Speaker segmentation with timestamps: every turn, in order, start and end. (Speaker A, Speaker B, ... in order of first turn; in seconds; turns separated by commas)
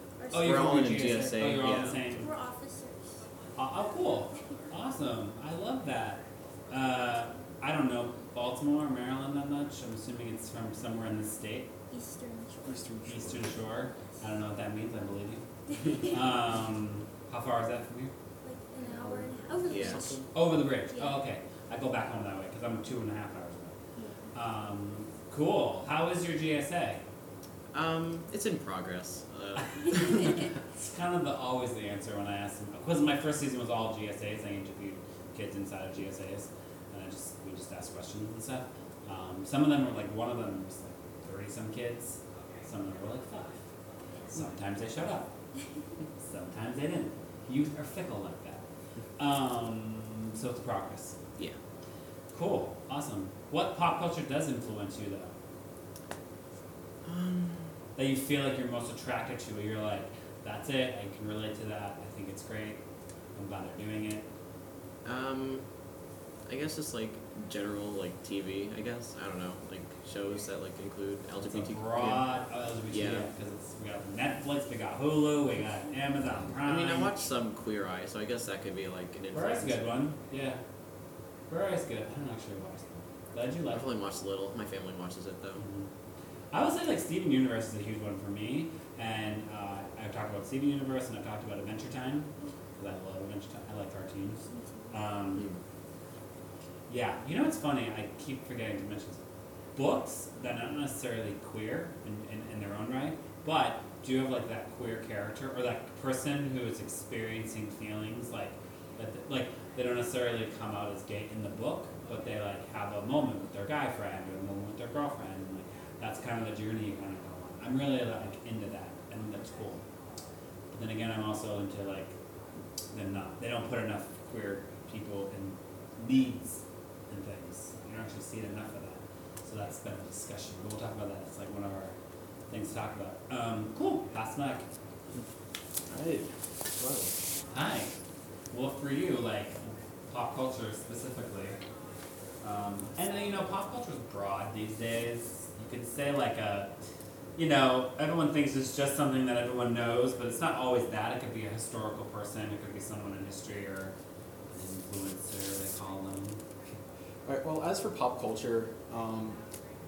Speaker A: 0.2-0.9, Speaker B: 0.3-2.3, Speaker C: 0.4-2.2, Speaker A: 2.2-3.2, Speaker B: 3.5-11.7, Speaker A: 11.9-12.8, Speaker D: 12.7-13.6, Speaker B: 13.1-18.1, Speaker A: 15.8-16.1, Speaker A: 18.4-20.2, Speaker D: 18.8-20.3, Speaker C: 19.7-20.0, Speaker B: 20.3-23.8, Speaker A: 24.0-24.3, Speaker B: 24.3-27.0, Speaker C: 27.7-30.5, Speaker B: 30.1-43.6, Speaker B: 44.3-45.3, Speaker B: 46.2-48.6, Speaker B: 49.2-51.2, Speaker B: 52.3-55.3, Speaker C: 57.0-57.7, Speaker B: 58.0-62.8, Speaker B: 63.4-64.3, Speaker C: 65.0-65.7, Speaker C: 66.5-72.3, Speaker B: 71.4-77.2, Speaker C: 72.9-73.3, Speaker C: 76.6-79.9, Speaker B: 79.3-80.6, Speaker B: 81.5-83.8, Speaker C: 83.7-85.6, Speaker B: 85.6-85.9, Speaker B: 86.5-95.5, Speaker A: 94.5-94.9, Speaker B: 96.9-99.2, Speaker B: 99.8-119.9, Speaker B: 120.7-122.2, Speaker B: 122.9-132.0, Speaker B: 132.5-134.7, Speaker D: 135.9-137.2, Speaker B: 137.5-137.9, Speaker B: 138.5-141.6, Speaker B: 142.4-146.7, Speaker B: 147.4-153.9, Speaker B: 154.5-156.4, Speaker D: 157.2-159.4